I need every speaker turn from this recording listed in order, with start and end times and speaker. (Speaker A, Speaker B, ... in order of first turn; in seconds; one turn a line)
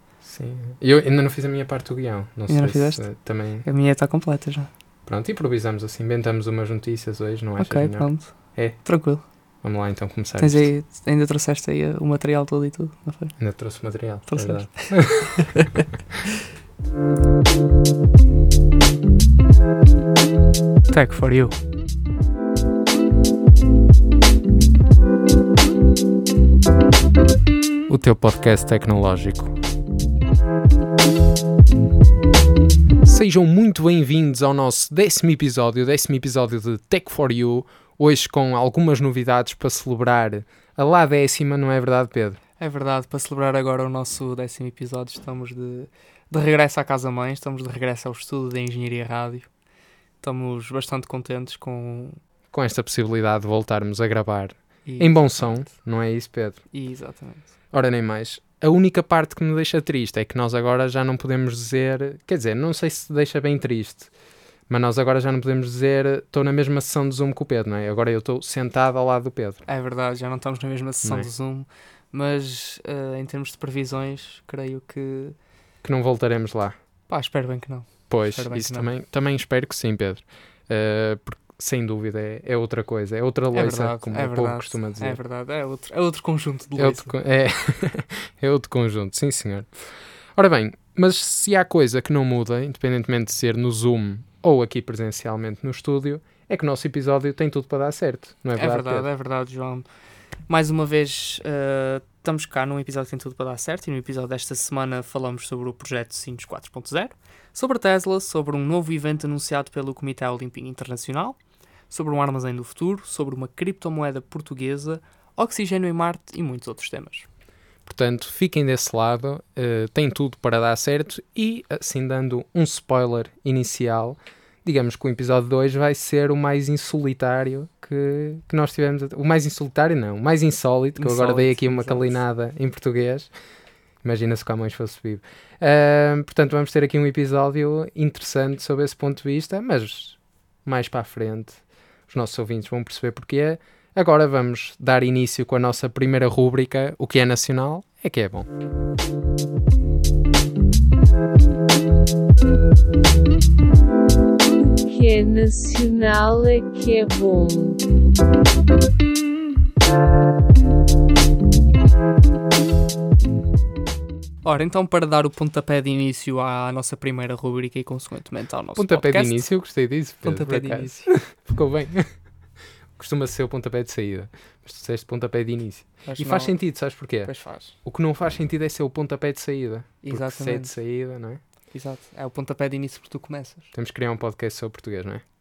Speaker A: 0.2-3.6
Speaker B: 2.5-4.7
Speaker A: 5.1-8.9
Speaker B: 7.6-9.2
Speaker A: 9.6-10.7
Speaker B: 10.4-13.4
Speaker A: 13.4-15.5
Speaker B: 14.3-15.8
Speaker B: 20.9-21.6
Speaker A: 27.9-29.6
Speaker A: 33.0-42.4
Speaker B: 42.6-49.5
Speaker B: 50.2-52.2
Speaker A: 52.5-56.6
Speaker B: 54.9-55.6
Speaker B: 56.7-57.5
Speaker A: 57.7-64.1
Speaker A: 64.7-69.6
Speaker B: 69.7-75.4
Speaker A: 71.0-71.3
Speaker A: 75.8-76.8
Speaker B: 77.1-78.9
Speaker A: 78.1-85.2
Speaker B: 83.5-87.2
Speaker A: 86.8-89.7
Speaker A: 90.4-99.1
Speaker B: 98.5-99.9
Speaker B: 100.5-111.4
Speaker B: 111.9-117.3
Speaker A: 117.9-133.3
Speaker B: 131.0-132.2
Speaker A: 134.0-148.5
Speaker C: 154.7-157.8
Speaker B: 164.4-169.5
Speaker A: 168.8-172.3
Speaker B: 170.2-171.2
Speaker A: 173.0-181.4
Speaker B: 176.1-177.8
Speaker B: 180.0-180.7
Speaker B: 181.7-183.7
Speaker A: 183.7-185.2